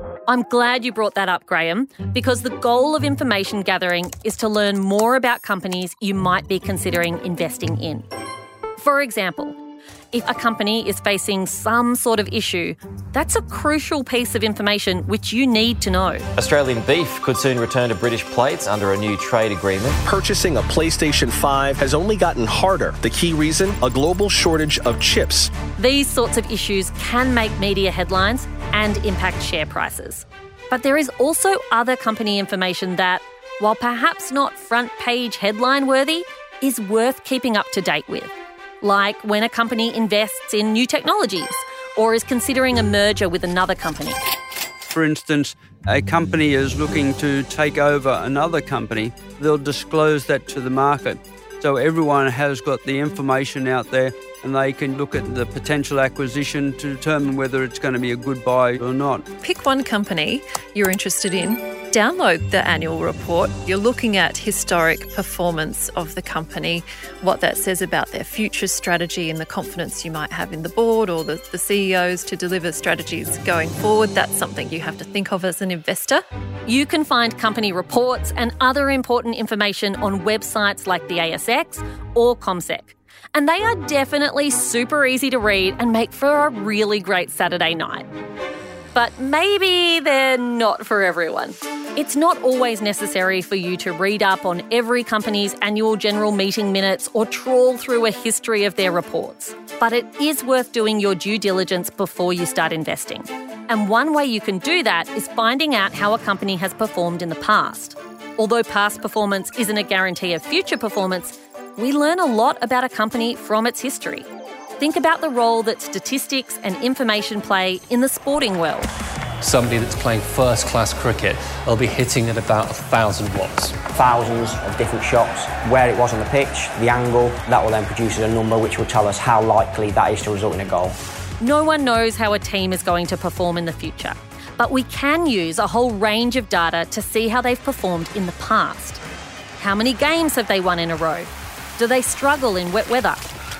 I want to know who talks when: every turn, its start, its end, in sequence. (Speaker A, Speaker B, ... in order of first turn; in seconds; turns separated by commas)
Speaker A: 0.3-8.1, Speaker A: 8.8-9.6, Speaker A: 10.1-16.2, Speaker B: 16.4-20.0, Speaker C: 20.0-25.5, Speaker A: 25.8-44.2, Speaker D: 44.9-59.2, Speaker E: 59.4-76.2, Speaker A: 76.7-88.0, Speaker A: 88.9-114.2, Speaker A: 114.8-118.9, Speaker F: 119.4-123.8, Speaker G: 123.9-131.0, Speaker A: 131.4-139.0, Speaker A: 139.6-143.2